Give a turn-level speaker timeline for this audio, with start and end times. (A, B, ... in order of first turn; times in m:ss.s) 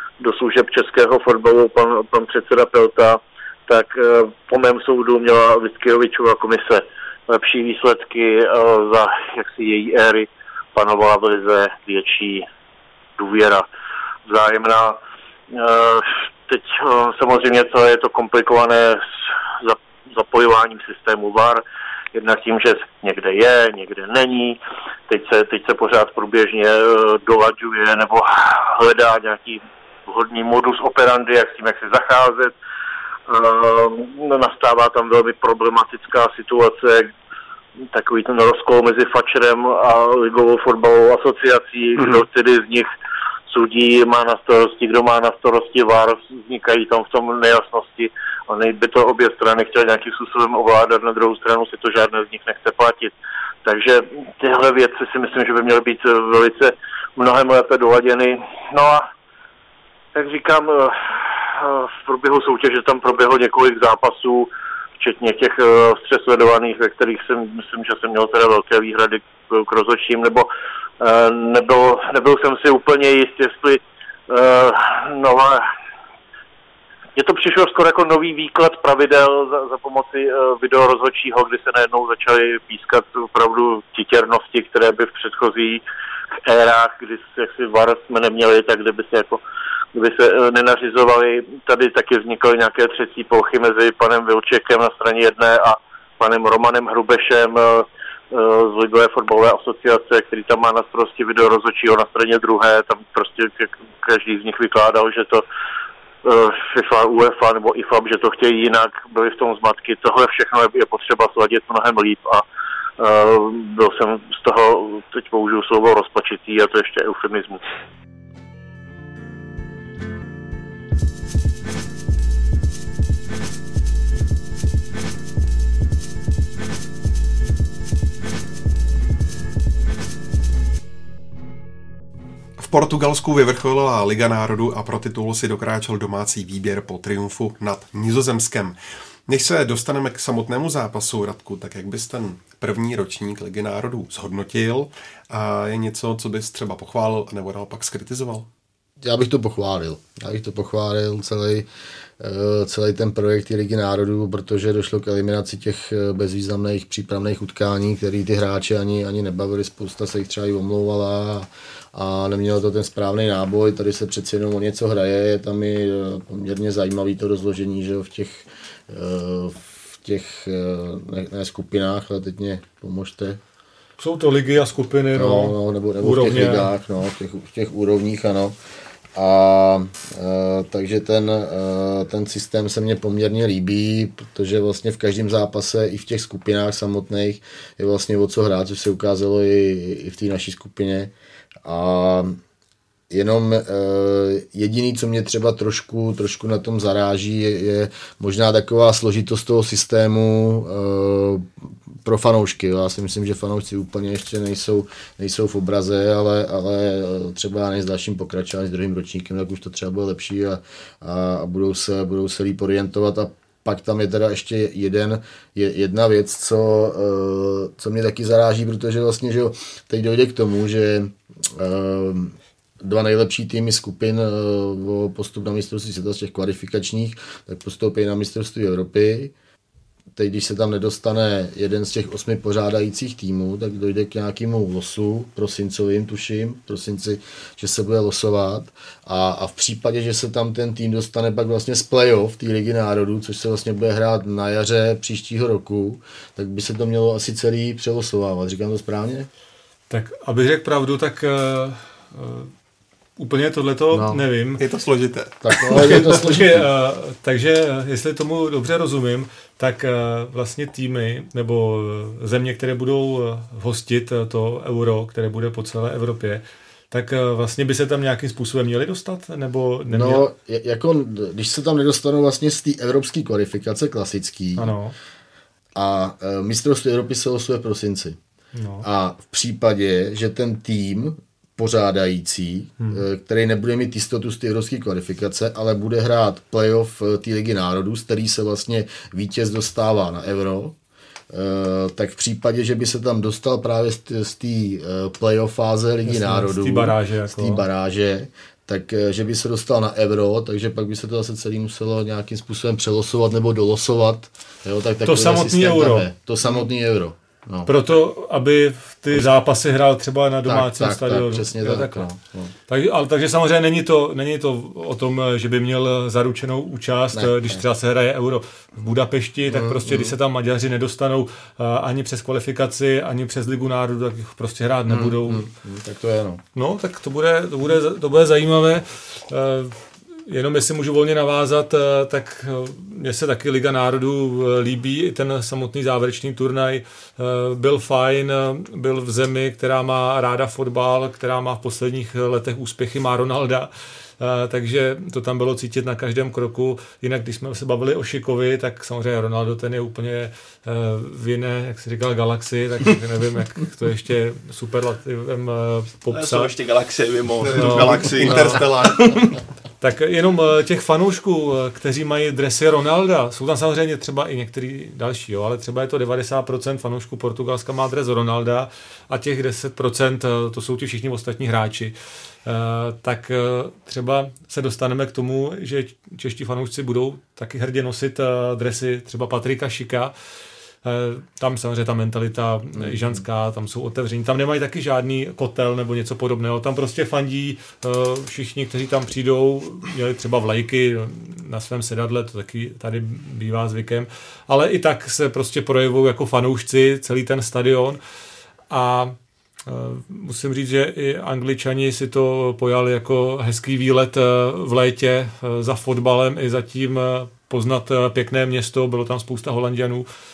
0:00.2-0:12.5 A
0:13.2-0:13.7 A
0:14.3-0:15.0 A
0:15.5-0:19.0 A
0:19.6-0:21.6 A
0:22.1-0:32.5 A
0:33.3-0:37.1 A
0:37.9-0:42.9 A
0:43.5-0:59.1 A
1:00.2-1:10.5 A
1:11.0-1:15.7 A
1:17.2-1:25.8 A
1:26.5-1:29.4 A
1:29.9-1:45.4 A
1:46.2-1:52.4 A
1:53.0-1:57.6 A
2:12.6-2:18.8 B
2:19.3-2:28.5 B
2:29.0-2:31.7 C
2:32.2-2:53.4 C
2:54.0-2:56.7 D
2:55.2-2:58.6 C
2:59.2-3:11.1 C
3:11.6-3:12.4 C
3:13.1-3:49.3 C
3:50.1-4:09.3 C
4:09.9-4:12.5 D
4:13.2-4:14.6 D
4:13.9-4:14.2 C
4:14.6-4:16.2 B
4:15.4-4:16.7 C
4:15.6-4:30.3 D
4:29.9-4:34.7 C
4:34.6-4:34.9 D
4:35.8-4:38.2 C
4:38.6-4:38.9 D
4:38.8-4:50.8 C
4:51.3-5:07.7 C
4:56.1-4:57.6 D
5:05.0-5:06.1 D
5:07.7-5:12.1 D
5:10.5-5:12.5 C
5:12.7-5:25.5 D
5:17.1-5:17.6 C
5:19.5-5:20.1 C
5:24.9-5:26.4 C
5:26.6-5:56.5 D
5:56.1-5:59.4 E
5:57.4-5:59.3 B
5:57.5-5:58.6 D
5:59.8-6:11.9 D
6:12.4-6:20.1 D
6:20.8-6:38.0 D
6:22.8-6:23.2 C
6:38.7-6:50.1 D